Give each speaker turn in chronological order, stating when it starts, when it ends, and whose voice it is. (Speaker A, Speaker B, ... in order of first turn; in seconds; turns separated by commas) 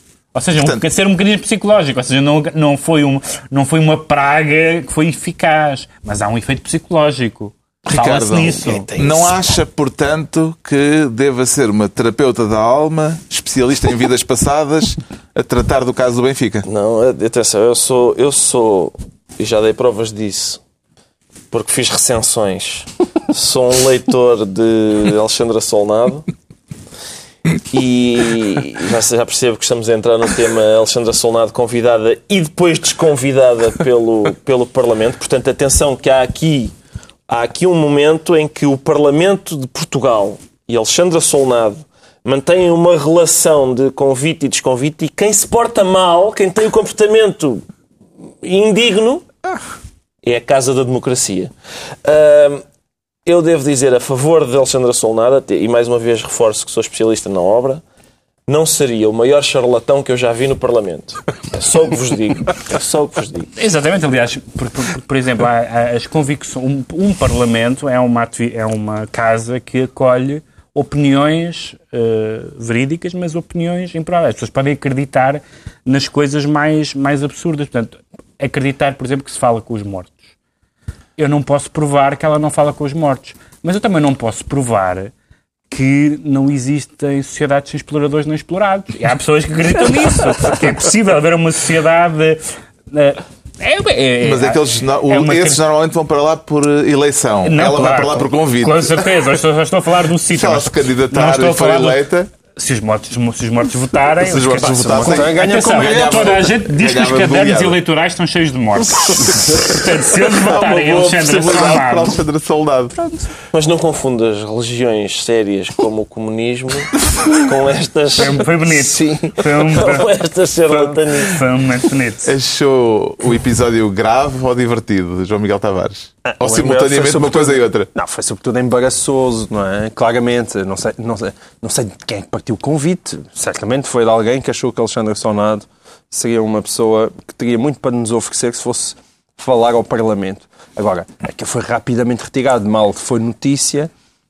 Speaker A: 0.3-8.9, Speaker B: 7.9-16.7, Speaker C: 8.6-9.5, Speaker C: 16.6-20.6, Speaker C: 21.5-26.3, Speaker C: 27.7-36.7, Speaker C: 37.3-47.6, Speaker C: 48.4-49.2, Speaker C: 50.2-51.5, Speaker C: 52.0-52.6, Speaker C: 53.3-57.8, Speaker C: 58.5-63.5, Speaker A: 63.6-80.3, Speaker A: 81.2-85.1, Speaker A: 85.7-92.4, Speaker A: 92.9-95.6, Speaker B: 94.2-99.0, Speaker A: 97.4-102.0, Speaker B: 100.3-102.3, Speaker A: 102.6-112.2, Speaker B: 104.2-107.8, Speaker D: 104.6-106.5, Speaker B: 110.3-113.0, Speaker C: 113.5-121.5, Speaker A: 118.2-120.1, Speaker A: 120.7-122.3, Speaker B: 122.2-127.9, Speaker D: 126.2-143.9